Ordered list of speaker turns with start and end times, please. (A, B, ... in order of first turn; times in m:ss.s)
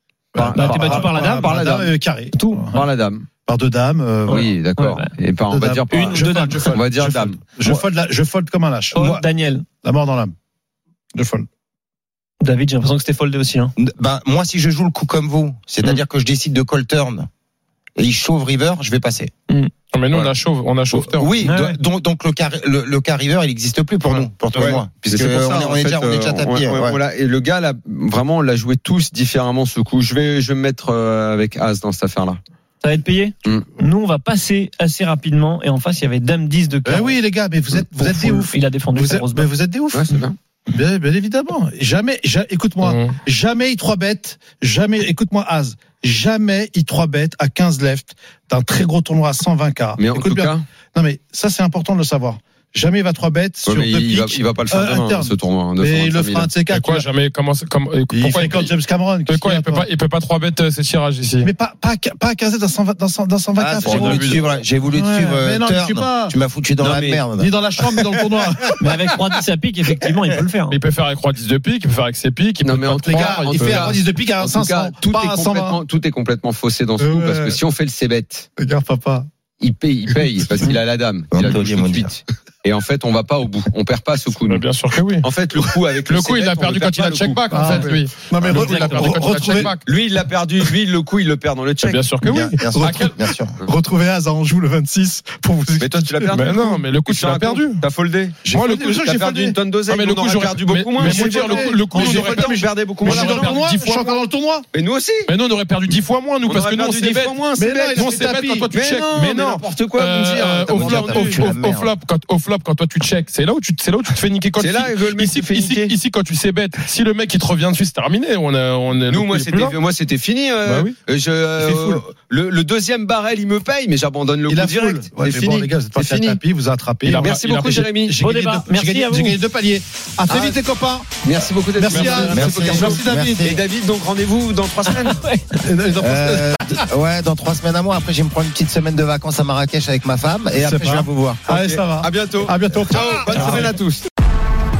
0:00.3-0:02.8 A
0:00.4-0:01.9 B
0:00.5-0:01.6 C
0:02.4-0:02.6 C
0:02.7-0:03.2 B
0:03.4-0:04.5 A
0:04.3-0:05.1 C
0:04.3-0:07.4 B
0:05.5-0:09.2 A
0:05.9-0:06.8 C
0:08.9-0:09.6 C
0:09.8-0:10.3 A
0:11.1-0:11.5 A
0:12.4-0:13.7 C
0:13.8-0:17.3 D
0:18.0-0:19.3 D
0:19.9-0:21.5 E
0:20.9-0:27.0 D
0:21.4-0:21.8 C
0:24.5-0:32.4 B
0:32.8-0:37.2 C
0:36.8-0:57.0 A
0:37.9-0:39.5 C
0:39.9-0:40.4 B
0:42.8-0:43.2 E
0:50.0-0:50.6 B
0:53.6-0:56.5 B
0:56.7-0:58.7 E
0:58.1-0:59.9 A
0:59.3-1:01.5 E
1:01.4-1:06.3 A
1:03.6-1:07.5 D
1:03.8-1:04.4 E
1:04.0-1:04.3 B
1:06.8-1:07.2 B
1:07.4-1:09.0 A
1:08.8-1:10.8 C
1:10.7-1:14.0 E
1:12.6-1:18.5 B
1:13.0-1:15.8 A
1:17.0-1:17.6 A
1:18.6-1:19.3 A
1:19.6-1:24.6 B
1:20.1-1:20.6 A
1:21.3-1:22.1 D
1:24.5-1:25.2 E
1:25.2-1:27.9 B
1:26.1-1:29.8 E
1:27.5-1:29.7 A
1:28.6-1:29.0 C
1:29.8-1:32.0 B
1:31.8-1:33.2 E
1:32.2-1:36.6 A
1:32.3-1:33.5 D
1:35.8-1:38.4 B
1:36.3-1:37.8 E
1:38.4-1:39.6 A
1:38.5-1:39.1 E
1:38.9-1:43.6 B
1:39.9-1:44.2 E
1:41.0-1:44.7 A
1:44.7-1:45.3 B
1:45.3-1:47.4 E
1:46.4-1:51.5 B
1:47.6-1:48.7 A
1:47.9-1:59.8 E
1:50.7-1:51.9 D
1:54.6-1:55.9 B
1:59.1-2:06.4 B
2:00.6-2:00.9 E
2:01.6-2:02.0 A
2:04.5-2:11.1 A
2:07.0-2:08.2 B
2:07.1-2:07.9 E
2:08.2-2:09.4 C
2:10.3-2:10.6 B
2:11.2-2:15.2 B
2:11.7-2:13.4 A
2:11.9-2:12.9 E
2:12.3-2:13.6 D
2:14.9-2:15.6 C
2:15.6-2:16.8 A
2:16.0-2:21.4 D
2:20.5-2:23.8 A
2:21.5-2:24.0 B